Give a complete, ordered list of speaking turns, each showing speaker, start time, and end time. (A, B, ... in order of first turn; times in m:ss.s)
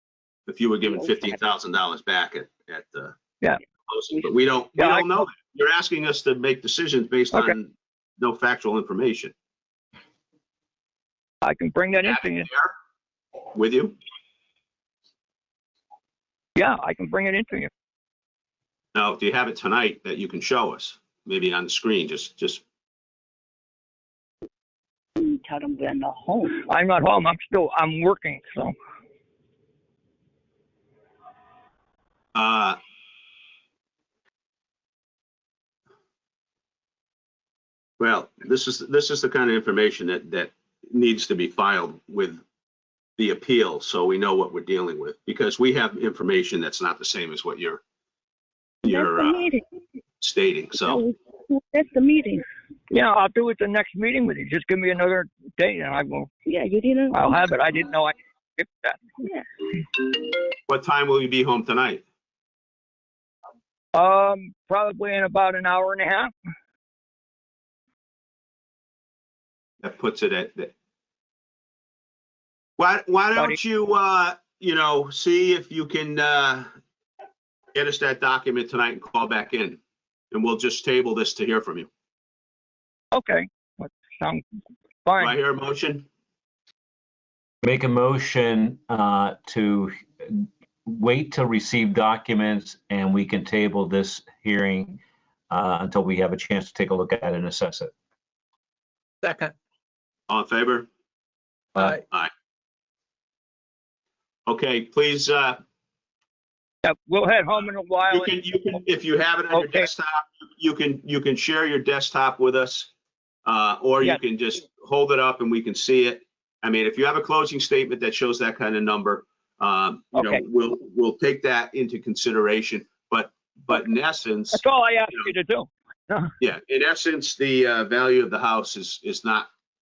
0:00.5-0:03.2 A
0:00.8-0:01.4 B
0:03.9-0:09.3 A
0:04.8-0:05.3 C
0:11.4-0:12.5 C
0:12.0-0:12.7 A
0:13.5-0:14.0 A
0:16.6-0:17.7 C
0:19.0-0:22.6 A
0:25.2-0:26.6 B
0:26.6-0:28.7 C
0:32.3-0:32.8 A
0:38.0-0:42.4 A
0:43.2-0:47.8 A
0:48.8-0:49.5 A
0:48.9-0:49.6 B
0:50.2-0:51.0 A
0:50.8-0:52.4 B
0:52.9-0:56.3 C
0:56.5-0:57.4 B
0:57.1-0:59.1 C
1:00.7-1:02.0 A
1:03.9-1:06.3 C
1:09.8-1:10.7 A
1:12.8-1:16.7 A
1:13.4-1:13.6 C
1:17.8-1:19.8 A
1:20.3-1:21.9 A
1:23.1-1:24.4 C
1:25.0-1:25.4 C
1:25.2-1:26.1 A
1:27.6-1:37.9 D
1:40.3-1:40.9 A
1:44.5-1:45.6 A
1:46.8-1:48.3 C
1:48.0-1:52.9 A
1:49.5-1:49.9 C
1:53.4-2:04.6 A
2:00.1-2:00.4 C
2:04.5-2:06.3 C
2:06.4-2:09.5 A